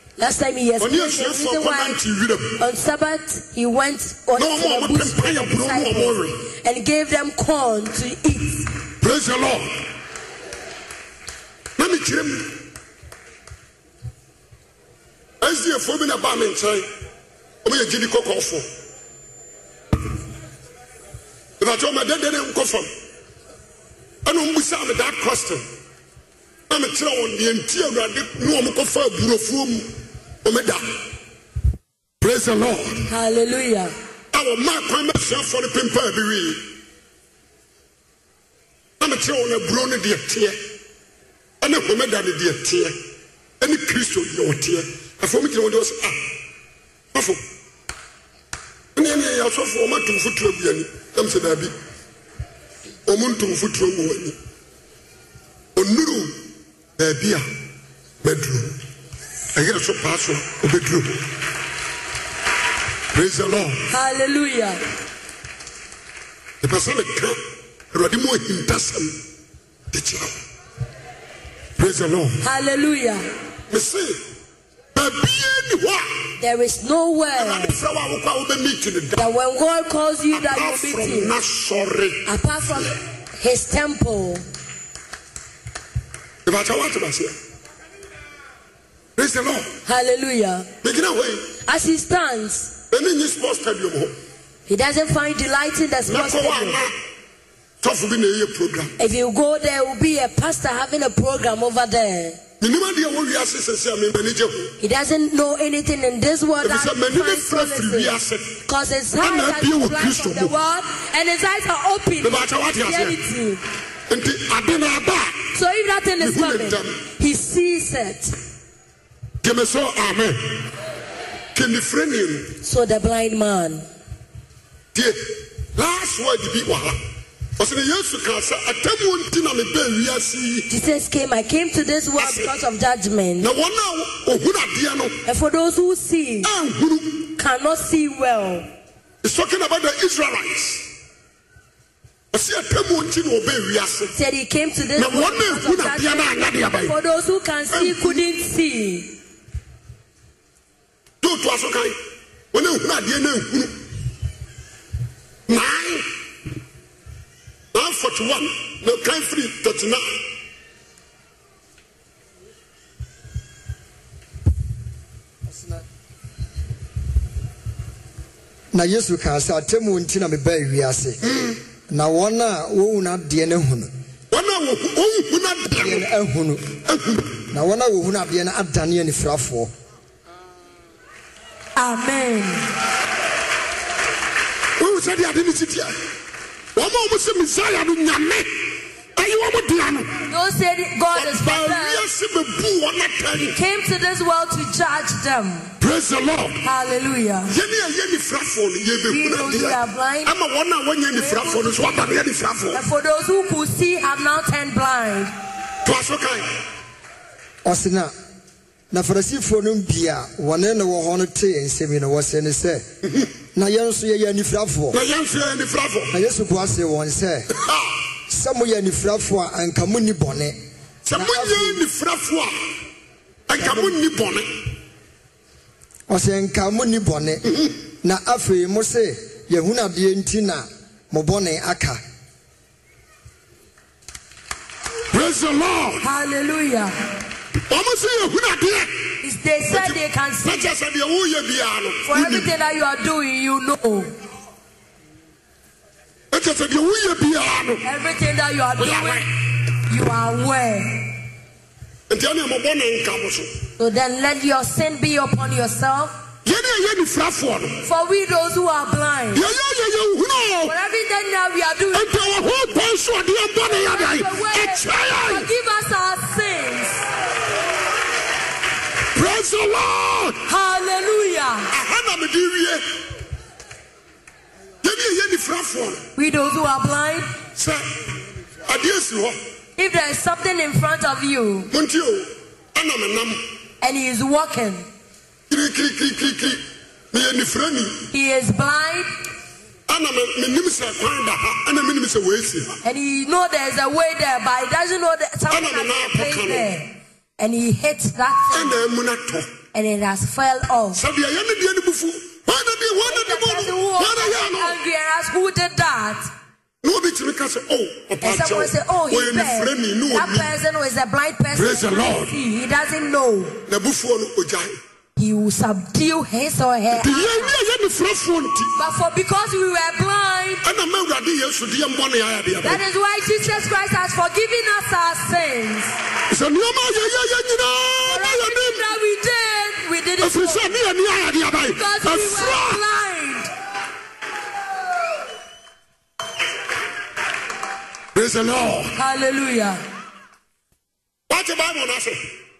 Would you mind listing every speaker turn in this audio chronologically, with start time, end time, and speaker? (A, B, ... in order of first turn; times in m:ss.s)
0:00.2-0:02.0 A
0:00.8-0:02.6 B
0:02.6-0:08.7 A
0:04.4-0:06.4 B
0:09.0-0:09.7 B
0:11.8-0:12.6 B
0:15.4-0:16.9 B
0:17.6-0:18.6 B
0:21.6-0:22.9 B
0:24.2-0:25.6 B
0:26.7-0:29.9 B
0:30.4-0:30.9 B
0:32.2-0:33.1 B
0:33.1-0:33.9 A
0:34.3-0:36.7 B
0:39.0-0:40.6 B
0:41.6-0:43.0 B
0:43.6-0:46.3 B
0:47.1-0:47.4 B
0:49.0-0:51.7 B
0:53.1-0:54.4 B
0:55.7-0:56.4 B
0:57.0-0:57.4 B
0:58.2-0:58.8 B
0:59.5-1:01.2 B
1:03.1-1:03.9 B
1:03.9-1:04.8 A
1:06.6-1:07.4 B
1:07.9-1:09.2 B
1:09.9-1:10.4 B
1:11.8-1:12.4 B
1:12.4-1:13.3 A
1:13.7-1:14.2 B
1:15.0-1:16.1 B
1:16.4-1:17.8 A
1:17.3-1:19.3 B
1:19.2-1:21.3 A
1:20.3-1:22.3 B
1:22.3-1:24.4 A
1:26.4-1:27.4 B
1:29.2-1:29.7 B
1:29.9-1:30.7 A
1:30.8-1:31.5 B
1:31.6-1:32.7 A
1:32.9-1:34.2 B
1:34.7-1:36.8 A
1:36.0-1:36.9 B
1:37.8-1:38.9 B
1:39.0-1:42.4 A
1:42.6-1:44.7 B
1:44.8-1:53.6 A
1:46.6-1:48.6 B
1:49.2-1:50.6 B
1:52.2-1:53.2 B
1:54.1-1:55.5 B
1:55.5-1:58.4 A
1:56.2-1:57.0 B
1:59.4-2:00.6 B
2:01.5-2:02.5 B
2:02.6-2:03.9 A
2:05.7-2:07.0 B
2:07.6-2:10.7 B
2:10.7-2:13.5 A
2:12.2-2:12.5 B
2:13.4-2:15.2 B
2:15.3-2:16.5 A
2:16.4-2:17.3 B
2:17.4-2:18.7 A
2:19.2-2:20.9 B
2:22.3-2:24.1 B
2:24.1-2:29.1 A
2:25.0-2:27.0 B
2:27.7-2:28.2 B
2:31.2-2:32.0 B
2:32.5-2:33.8 B
2:35.5-2:36.1 B
2:37.7-2:40.1 B
2:45.5-2:45.8 C
2:48.7-2:51.2 C
2:51.2-2:51.6 B
2:51.9-2:53.9 C
2:54.3-2:56.1 B
2:55.8-2:56.7 C
2:56.9-2:57.4 B
2:57.5-2:59.7 C
3:01.8-3:02.6 A
3:04.8-3:06.0 B
3:06.7-3:08.5 B
3:09.2-3:10.2 B
3:10.3-3:12.0 A
3:11.1-3:13.6 B
3:13.4-3:15.7 A
3:15.8-3:16.6 B
3:16.6-3:17.5 A
3:17.5-3:22.8 B
3:19.1-3:20.3 A
3:21.1-3:21.9 A
3:22.7-3:25.3 A
3:25.8-3:26.5 B
3:27.6-3:28.1 C
3:28.9-3:32.8 C
3:33.0-3:33.3 B
3:33.6-3:35.0 C
3:34.9-3:36.1 B
3:36.1-3:37.5 C
3:37.5-3:37.9 B
3:38.3-3:40.6 C
3:41.0-3:42.6 B
3:41.1-3:41.8 C
3:43.5-3:44.5 B
3:46.1-3:47.5 C
3:48.0-3:52.0 C
3:55.1-3:56.0 B
3:56.0-3:56.9 A
3:57.7-3:58.9 B
3:59.2-4:00.7 A
3:59.7-4:02.5 B
4:02.0-4:04.1 A
4:06.3-4:07.8 B
4:07.8-4:09.3 A
4:08.8-4:09.3 B
4:09.9-4:11.1 A
4:12.1-4:13.5 B
4:13.8-4:16.1 A
4:16.4-4:17.8 B
4:17.8-4:19.4 A
4:19.3-4:20.7 B
4:20.6-4:22.4 A
4:21.9-4:25.5 B
4:23.6-4:27.0 A
4:29.1-4:30.4 B
4:30.4-4:31.7 A
4:31.7-4:32.8 B
4:34.8-4:36.0 B
4:36.2-4:37.3 A
4:37.6-4:37.8 B
4:38.6-4:39.4 B
4:39.8-4:41.7 A
4:41.7-4:43.4 B
4:43.8-4:44.9 A
4:45.5-4:48.1 B
4:48.1-4:49.1 A
4:49.9-4:52.7 B
4:52.8-4:58.8 A
4:55.5-4:56.7 B
4:58.5-4:59.5 B
4:59.7-5:01.0 A
5:01.0-5:04.8 B
5:03.0-5:06.2 A
5:06.8-5:10.5 B
5:08.2-5:13.6 A
5:11.5-5:12.3 B
5:13.7-5:14.7 B
5:15.2-5:17.6 A
5:16.9-5:18.7 B
5:18.8-5:20.6 A
5:20.6-5:22.8 B
5:22.6-5:26.0 A
5:26.3-5:28.8 B
5:28.0-5:30.7 A
5:30.2-5:32.8 B
5:31.7-5:33.5 A
5:38.1-5:39.0 B
5:39.0-5:39.8 A
5:41.3-5:42.2 B